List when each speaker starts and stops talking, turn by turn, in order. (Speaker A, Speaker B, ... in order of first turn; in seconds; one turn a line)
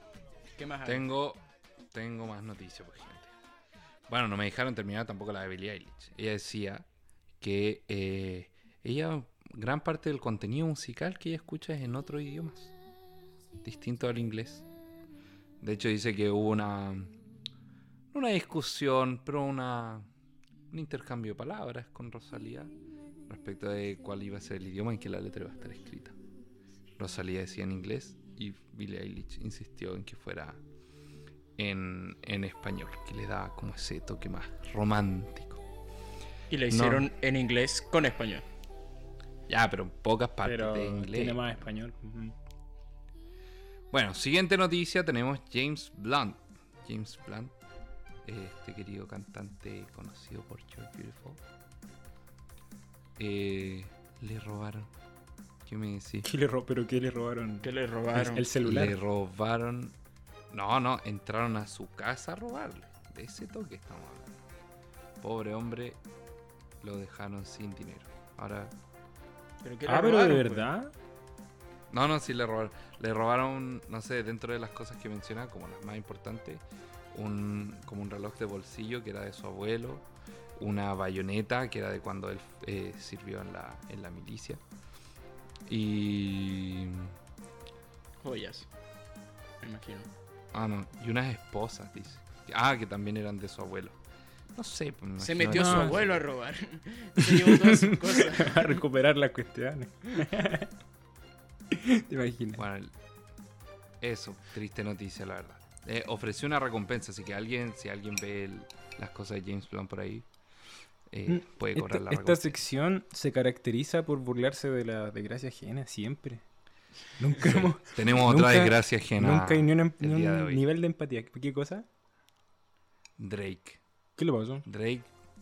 Speaker A: 0.6-1.1
Speaker B: 0.8-3.3
Speaker B: 4.1-6.9
Speaker B: 7.4-12.7
Speaker B: 13.6-14.6
Speaker B: 15.6-17.1
Speaker B: 18.1-20.1
Speaker B: 20.7-22.7
Speaker B: 23.3-26.1
Speaker B: 27.0-30.6
Speaker B: 31.6-35.6
Speaker A: 36.5-38.4
Speaker B: 36.7-37.1
Speaker B: 39.5-41.6
Speaker C: 40.4-42.3
Speaker B: 43.9-47.5
Speaker B: 48.2-51.4
Speaker B: 53.2-54.9
Speaker B: 55.6-56.3
Speaker C: 56.2-59.0
Speaker A: 57.6-58.5
Speaker B: 58.6-59.9
Speaker B: 60.5-64.3
Speaker B: 65.2-66.0
Speaker B: 66.8-68.7
Speaker A: 69.6-70.7
Speaker C: 69.8-70.9
Speaker B: 71.9-84.6
Speaker B: 85.7-87.2
Speaker A: 88.2-88.7
Speaker A: 89.6-90.1
Speaker B: 90.5-94.0
Speaker B: 94.5-96.2
Speaker A: 95.2-98.8
Speaker C: 95.5-96.0
Speaker C: 97.2-100.7
Speaker C: 101.7-102.6
Speaker B: 102.5-102.9
Speaker B: 104.0-110.3
Speaker B: 111.1-112.6
Speaker C: 111.3-116.4
Speaker C: 117.1-121.9
Speaker B: 117.4-120.7
Speaker B: 123.2-123.8
Speaker C: 124.2-124.7
Speaker B: 124.6-125.1